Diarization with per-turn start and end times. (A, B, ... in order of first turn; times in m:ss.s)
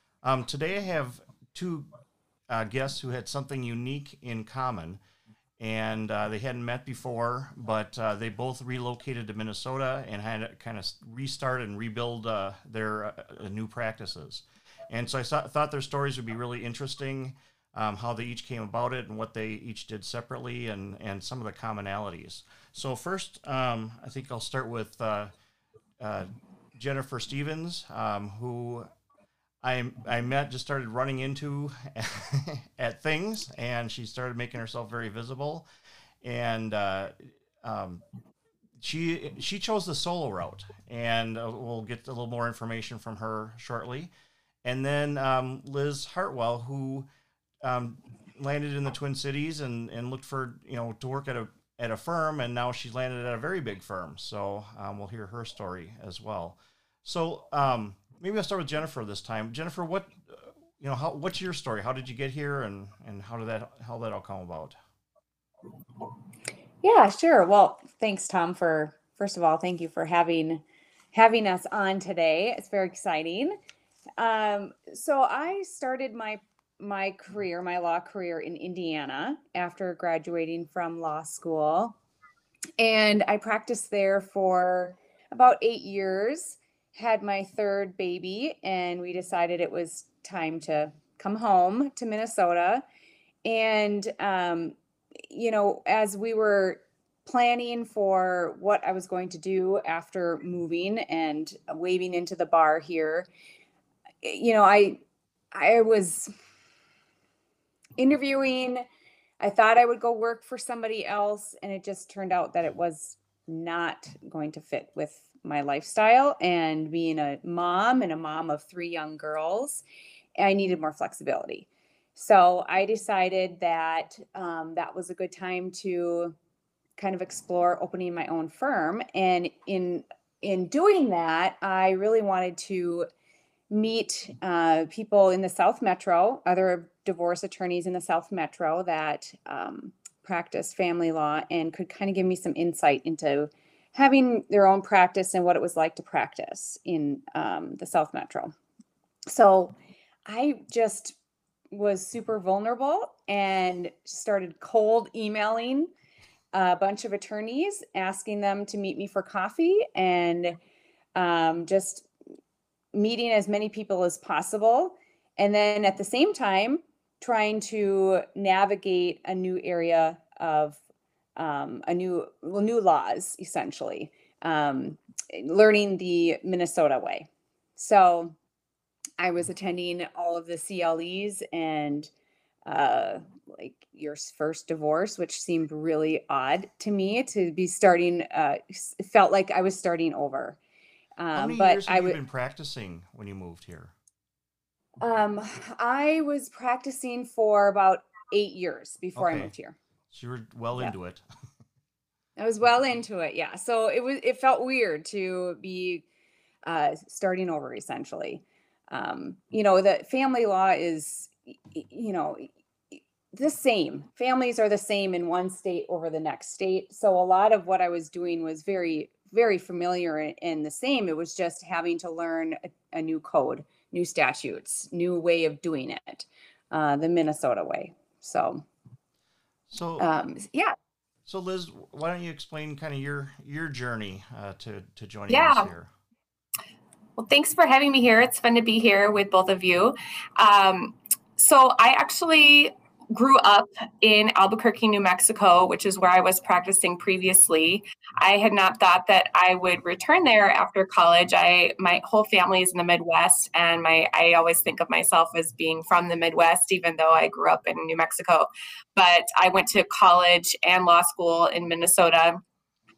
0:00.2-0:01.9 A
0:02.5-0:05.0 A
0:05.6-0:25.3 A
0:26.0-0:28.9 A
0:29.6-0:35.6 A
0:36.2-0:38.0 A
0:38.8-0:44.1 A
0:44.6-0:47.0 A
0:47.6-1:04.8 A
1:06.8-1:13.5 B
1:14.2-1:22.0 B
1:22.8-1:32.8 B
1:33.4-1:34.7 B
1:35.3-1:43.3 B
1:44.2-1:45.0 B
1:45.5-1:46.3 B
1:48.0-1:48.8 B
1:49.4-1:59.8 B
2:00.4-2:06.4 B
2:07.0-2:13.1 B
2:13.7-2:28.5 B
2:29.3-2:29.8 B
2:30.3-2:31.2 B
2:31.7-2:35.9 B
2:36.5-2:40.6 B
2:41.2-2:42.1 B
2:42.9-2:50.8 B
2:51.4-2:58.4 B
2:59.2-3:02.1 B
3:02.6-3:10.6 B
3:11.2-3:12.2 B
3:11.3-3:13.9 A
3:15.0-3:19.8 B
3:19.2-3:19.5 A
3:20.1-3:21.2 A
3:22.4-3:26.0 B
3:26.6-3:32.5 B
3:33.3-3:48.6 B
3:49.7-3:50.0 A
3:50.0-3:50.7 B
3:51.2-3:55.9 A
3:55.3-3:55.7 C
3:57.2-4:22.4 C